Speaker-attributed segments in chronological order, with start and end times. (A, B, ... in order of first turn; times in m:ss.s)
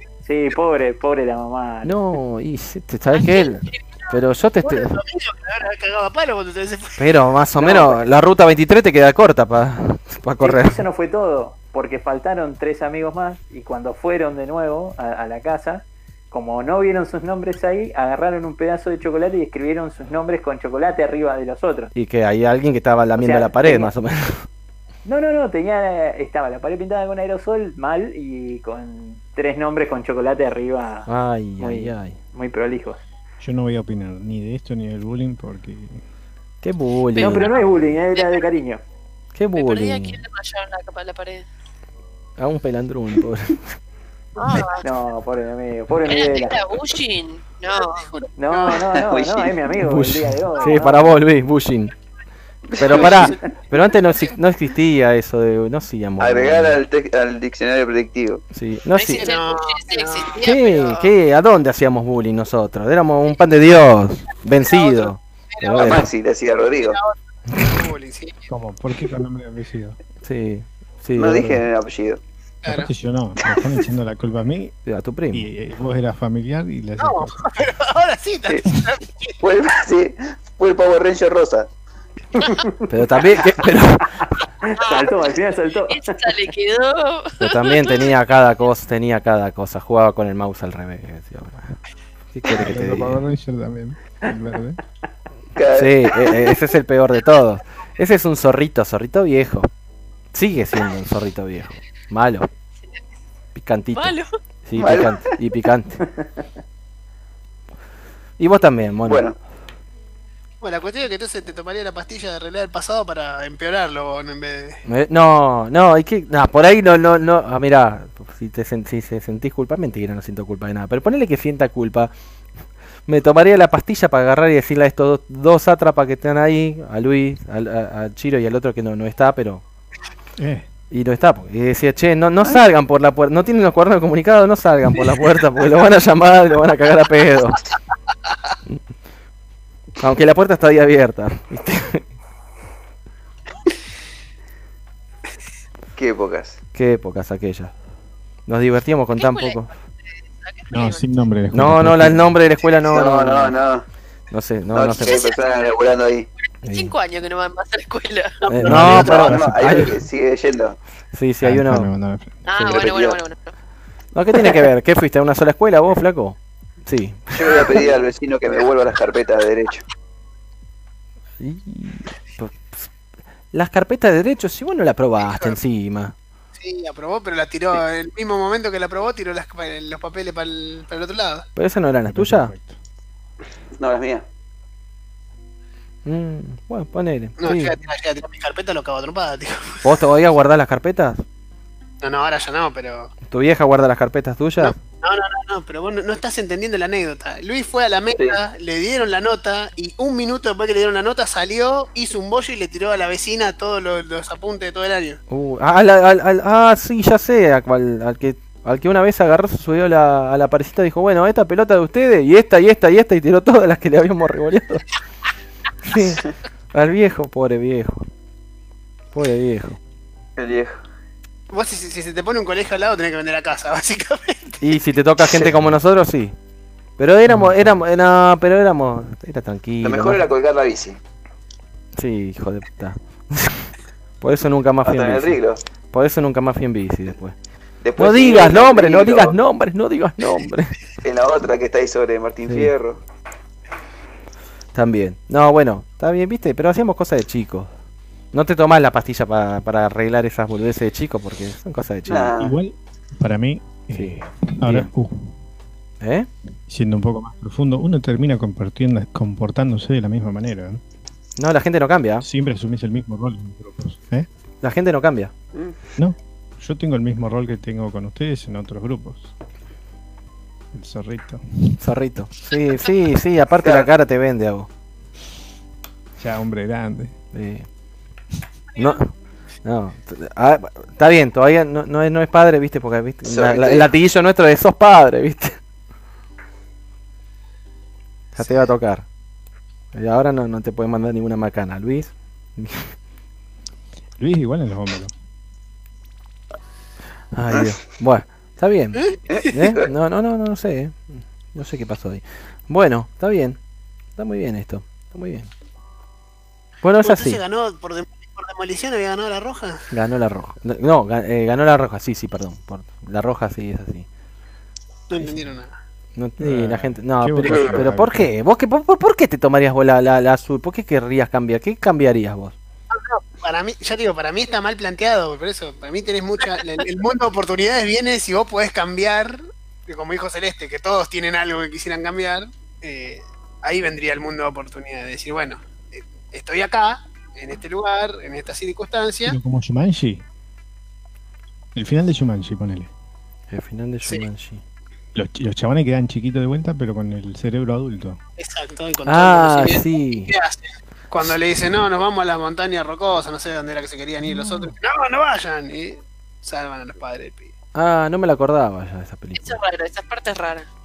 0:00.2-0:02.1 A
0:01.8-0:04.9 B
0:03.1-0:04.1 C
0:04.6-0:07.1 D
0:07.0-0:10.8 B
0:07.6-0:08.0 A
0:10.4-0:21.9 A
0:21.9-0:24.5 B
0:23.2-0:23.9 A
0:25.0-0:33.0 A
0:31.1-0:32.2 B
0:33.4-0:36.0 E
0:36.6-0:37.5 B
0:37.1-0:37.6 C
0:37.1-0:38.8 A
0:38.2-0:38.4 C
0:39.3-0:40.2 B
0:39.5-0:41.4 C
0:42.4-0:43.8 B
0:44.4-0:44.8 C
0:44.8-0:46.7 A
0:46.0-0:48.1 C
0:47.7-0:48.8 D
0:48.4-0:51.2 A
0:48.9-0:49.6 F
0:49.7-0:51.9 B
0:52.7-0:53.4 F
0:52.8-0:56.8 B
0:52.9-0:54.0 D
0:56.2-0:58.4 F
0:58.5-0:59.3 B
0:58.9-1:00.9 D
0:59.2-1:01.1 C
1:00.4-1:06.0 B
1:04.6-1:06.0 D
1:05.7-1:07.0 F
1:06.8-1:08.4 D
1:07.5-1:07.8 B
1:08.5-1:10.0 E
1:10.2-1:11.6 B
1:11.1-1:12.2 F
1:12.6-1:14.8 E
1:14.8-1:15.5 B
1:15.3-1:17.6 E
1:17.0-1:19.4 D
1:19.4-1:21.7 F
1:22.4-1:22.8 A
1:22.9-1:24.4 B
1:24.2-1:26.4 A
1:24.8-1:25.4 C
1:25.9-1:28.1 C
1:27.4-1:31.8 B
1:32.3-1:33.2 B
1:32.6-1:34.8 E
1:35.5-1:36.5 F
1:35.7-1:39.7 B
1:40.3-1:42.5 B
1:43.5-1:46.1 B
1:43.9-1:44.3 C
1:44.7-1:45.4 F
1:46.1-1:46.4 A
1:48.4-1:49.3 B
1:49.0-1:49.4 F
1:50.6-1:54.8 D
1:54.8-2:02.1 B
2:03.0-2:09.6 B
2:10.4-2:10.7 E
2:10.9-2:17.6 B
2:20.0-2:22.0 B
2:26.0-2:26.6 F
2:26.7-2:27.7 B
2:28.5-2:29.7 B
2:29.2-2:31.3 C
2:30.7-2:32.3 E
2:31.5-2:33.6 B
2:32.8-2:33.8 F
2:34.3-2:35.2 B
2:34.7-2:36.3 F
2:35.0-2:35.8 C
2:36.4-2:38.8 C
2:36.6-2:36.9 B
2:38.5-2:40.0 B
2:38.6-2:40.0 E
2:38.7-2:40.8 F
2:41.1-2:41.9 B
2:41.4-2:42.4 E
2:42.4-2:43.5 C
2:42.6-2:42.8 B
2:42.6-2:43.2 F
2:44.1-2:47.8 B
2:47.3-2:49.8 F
2:51.4-2:52.9 B
2:53.5-2:56.1 B
2:55.2-2:55.6 D
2:56.6-3:01.5 D
3:01.6-3:02.5 B
3:02.0-3:02.8 E
3:03.8-3:04.2 F
3:06.0-3:07.8 B
3:07.4-3:10.0 D
3:09.8-3:11.2 B
3:12.0-3:13.1 D
3:13.3-3:14.8 B
3:14.6-3:25.2 D
3:25.3-3:34.8 B
3:35.8-3:36.2 B
3:36.7-3:38.1 B
3:39.1-3:39.8 B
3:40.4-3:40.8 F
3:41.5-3:44.6 D
3:44.6-3:46.3 B
3:47.0-3:50.2 B
3:49.8-3:51.0 F
3:52.0-3:57.3 B
3:54.8-3:55.6 F
3:57.8-3:59.4 F
3:58.0-4:00.8 B
4:01.0-4:03.0 F
4:02.4-4:02.7 B
4:04.7-4:07.7 B
4:08.3-4:12.3 B
4:12.1-4:12.6 F
4:12.4-4:15.3 E
4:13.9-4:14.9 B
4:16.0-4:16.3 B
4:16.7-4:20.8 E
4:21.4-4:22.2 B
4:22.2-4:24.3 E
4:24.6-4:25.3 B
4:26.0-4:29.3 E
4:30.7-4:31.8 E
4:31.8-4:34.7 B
4:33.6-4:33.9 F
4:36.2-4:37.2 E
4:37.3-4:37.7 B
4:38.8-4:45.6 B
4:43.2-4:43.9 F
4:48.3-4:49.0 B
4:48.4-4:48.6 D
4:49.9-4:52.9 B
4:54.2-4:55.1 E
4:57.3-5:03.6 B
4:59.0-4:59.2 D
4:59.2-4:59.9 F
5:04.1-5:05.5 B
5:06.8-5:07.4 B
5:07.0-5:09.9 D
5:09.9-5:14.0 B
5:15.1-5:15.8 D
5:16.2-5:22.5 B
5:16.4-5:18.3 E
5:17.4-5:17.8 F
5:22.9-5:39.4 D
5:39.2-5:40.2 E
5:41.7-5:42.9 E
5:43.5-5:44.6 B
5:45.1-5:48.2 E
5:48.4-5:57.5 D
5:49.0-5:50.3 B
5:54.3-5:54.7 E
5:57.7-5:59.6 B
5:59.3-6:00.7 C